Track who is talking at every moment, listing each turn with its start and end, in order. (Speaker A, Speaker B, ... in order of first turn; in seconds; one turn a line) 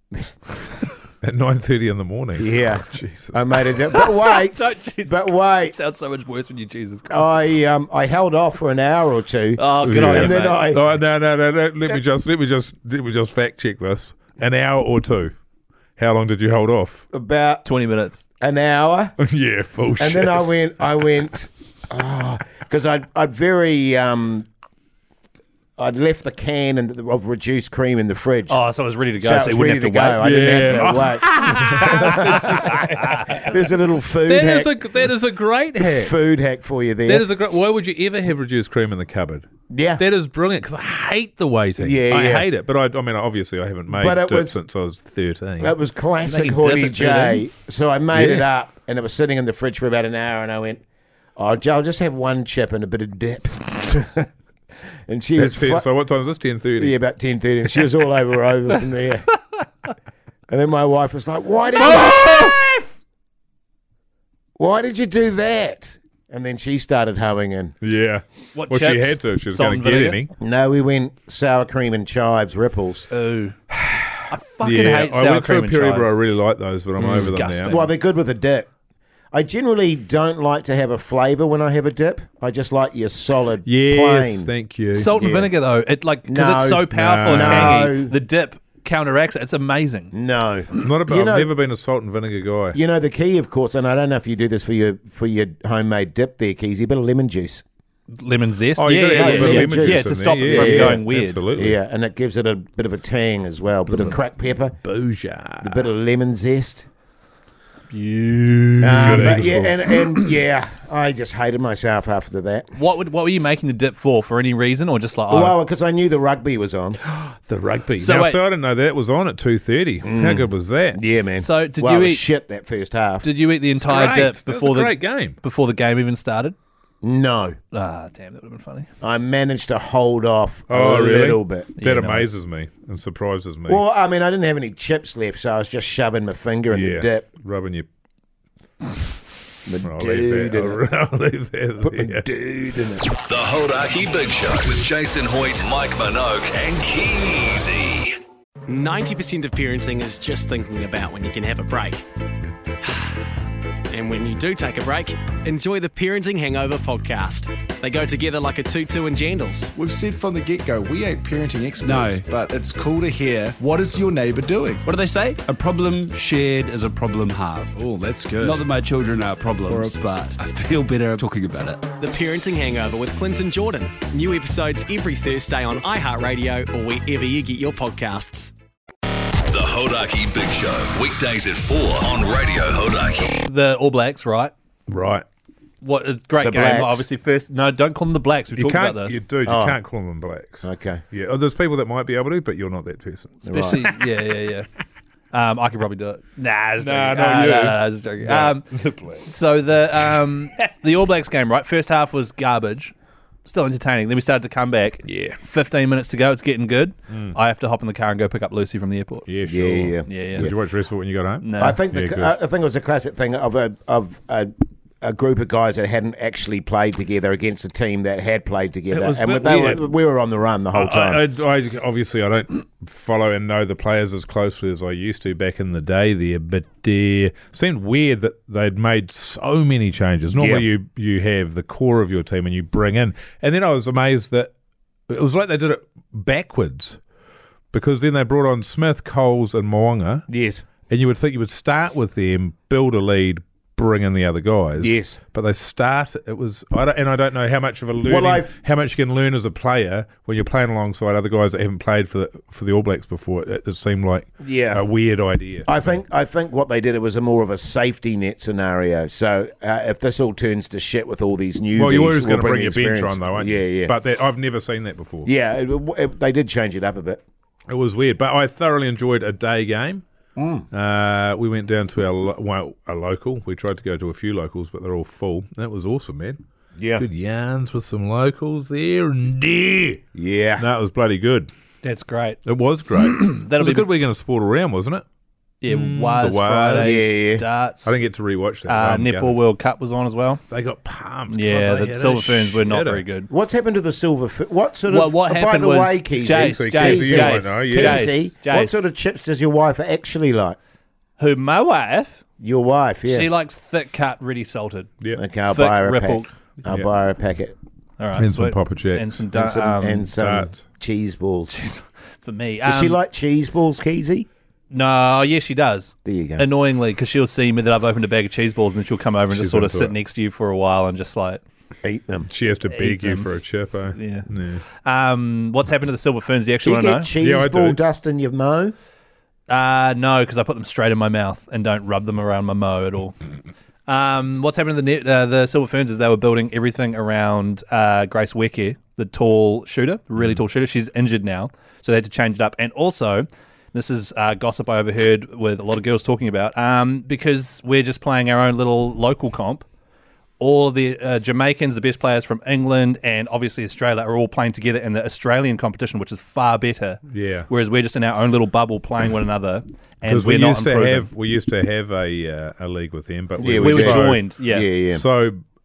Speaker A: 1.2-3.8
Speaker B: 2.4-5.8
Speaker C: 4.0-7.5
Speaker B: 7.1-10.9
Speaker C: 9.6-10.7
Speaker A: 9.8-15.3
Speaker A: 16.0-17.0
Speaker B: 17.1-17.6
Speaker C: 17.6-18.2
Speaker B: 18.4-19.1
Speaker A: 19.2-20.6
Speaker B: 20.0-24.5
Speaker B: 25.8-28.6
Speaker C: 28.5-30.3
Speaker B: 29.2-31.3
Speaker A: 30.2-33.5
Speaker B: 31.8-32.6
Speaker B: 33.4-34.7
Speaker A: 34.2-36.2
Speaker B: 35.8-37.3
Speaker A: 37.0-45.8
Speaker B: 39.7-40.0
Speaker B: 41.8-42.5
Speaker B: 43.9-44.6
Speaker B: 45.6-50.8
Speaker A: 46.3-47.4
Speaker A: 48.1-48.5
Speaker B: 51.4-54.3
Speaker B: 55.1-55.9
Speaker A: 55.4-57.0
Speaker B: 56.8-59.3
Speaker B: 60.5-62.4
Speaker C: 62.1-62.7
Speaker B: 64.6-67.7
Speaker A: 67.8-70.3
Speaker C: 68.5-70.2
Speaker B: 70.4-73.1
Speaker C: 73.1-73.6
Speaker A: 73.8-77.8
Speaker C: 74.3-76.2
Speaker B: 77.0-78.7
Speaker C: 77.0-77.9
Speaker B: 79.3-84.5
Speaker A: 83.7-85.2
Speaker C: 84.9-90.2
Speaker B: 85.1-85.5
Speaker B: 86.3-88.2
Speaker A: 86.9-87.9
Speaker B: 90.1-91.5
Speaker A: 90.8-92.8
Speaker B: 92.7-97.6
Speaker C: 98.1-101.4
Speaker A: 98.8-101.8
Speaker B: 99.1-104.8
Speaker A: 103.9-104.2
Speaker A: 104.8-105.9
Speaker B: 105.6-106.9
Speaker C: 107.9-109.6
Speaker B: 108.8-112.8
Speaker A: 108.8-109.8
Speaker C: 112.8-115.6
Speaker B: 115.3-117.0
Speaker A: 117.0-121.0
Speaker C: 118.0-118.4
Speaker B: 120.0-123.3
Speaker C: 121.4-122.2
Speaker C: 123.2-126.6
Speaker A: 123.8-125.4
Speaker B: 127.0-127.6
Speaker C: 127.7-128.9
Speaker B: 129.0-131.7
Speaker A: 130.7-133.8
Speaker C: 131.8-132.4
Speaker B: 133.7-137.3
Speaker A: 136.7-137.9
Speaker B: 139.7-140.8
Speaker A: 139.8-142.3
Speaker B: 141.8-143.1
Speaker D: 143.3-148.1
Speaker E: 148.7-152.0
Speaker E: 153.9-159.7
Speaker F: 159.8-164.9
Speaker G: 161.9-162.2
Speaker G: 164.9-167.8
Speaker E: 164.9-165.4
Speaker F: 167.8-168.6
Speaker G: 168.4-171.9
Speaker F: 169.7-170.0
Speaker E: 171.9-178.5
Speaker D: 179.5-183.4
Speaker C: 183.4-184.5
Speaker A: 184.9-185.2
Speaker C: 185.8-189.2
Speaker B: 186.4-187.1
Speaker A: 188.6-194.1
Speaker B: 189.5-189.8
Speaker B: 190.6-191.0
Speaker B: 193.4-193.8
Speaker C: 193.4-194.7
Speaker C: 195.3-198.7
Speaker A: 196.8-199.3
Speaker C: 199.2-202.9
Speaker C: 203.4-209.3
Speaker A: 205.1-205.4
Speaker A: 207.1-207.4
Speaker A: 209.3-212.3
Speaker B: 209.5-210.5
Speaker C: 210.1-210.5
Speaker C: 211.4-211.8
Speaker B: 211.6-221.2
Speaker A: 218.9-219.8
Speaker A: 220.7-234.5
Speaker B: 230.4-230.7
Speaker A: 235.1-237.0
Speaker A: 237.7-240.2
Speaker B: 240.3-240.7
Speaker A: 240.9-255.7
Speaker B: 244.8-245.2
Speaker B: 248.0-248.5
Speaker B: 254.4-254.8
Speaker B: 255.7-263.9
Speaker A: 261.8-265.3
Speaker B: 265.2-267.2
Speaker A: 267.7-270.0
Speaker B: 270.4-270.7
Speaker A: 270.7-276.4
Speaker B: 276.8-277.1
Speaker A: 277.0-280.0
Speaker B: 280.1-280.7
Speaker A: 280.6-281.5
Speaker C: 281.8-282.4
Speaker A: 282.4-285.0
Speaker C: 283.0-283.9
Speaker C: 285.6-288.0
Speaker A: 285.7-287.1
Speaker B: 286.8-287.4
Speaker A: 287.9-289.4
Speaker C: 288.7-290.4
Speaker A: 290.5-293.0
Speaker C: 291.3-293.3
Speaker B: 293.3-300.6
Speaker C: 294.9-298.8
Speaker A: 296.2-298.2
Speaker C: 301.2-302.2
Speaker B: 302.4-303.3
Speaker C: 303.1-306.3
Speaker B: 305.1-307.6
Speaker C: 308.0-310.1
Speaker A: 308.2-309.3
Speaker B: 309.3-311.5
Speaker A: 310.2-310.6
Speaker C: 311.5-313.0
Speaker B: 312.6-314.3
Speaker C: 314.7-321.4
Speaker B: 316.1-316.5
Speaker A: 319.3-319.9
Speaker B: 321.8-322.3
Speaker A: 322.3-324.6
Speaker C: 322.7-323.3
Speaker C: 323.9-327.1
Speaker B: 326.6-328.7
Speaker A: 327.2-327.8
Speaker C: 329.5-333.2
Speaker C: 333.9-349.7
Speaker C: 350.4-361.1
Speaker A: 357.1-357.5
Speaker A: 360.0-364.3
Speaker B: 363.4-365.0
Speaker C: 363.6-364.7
Speaker A: 364.9-365.4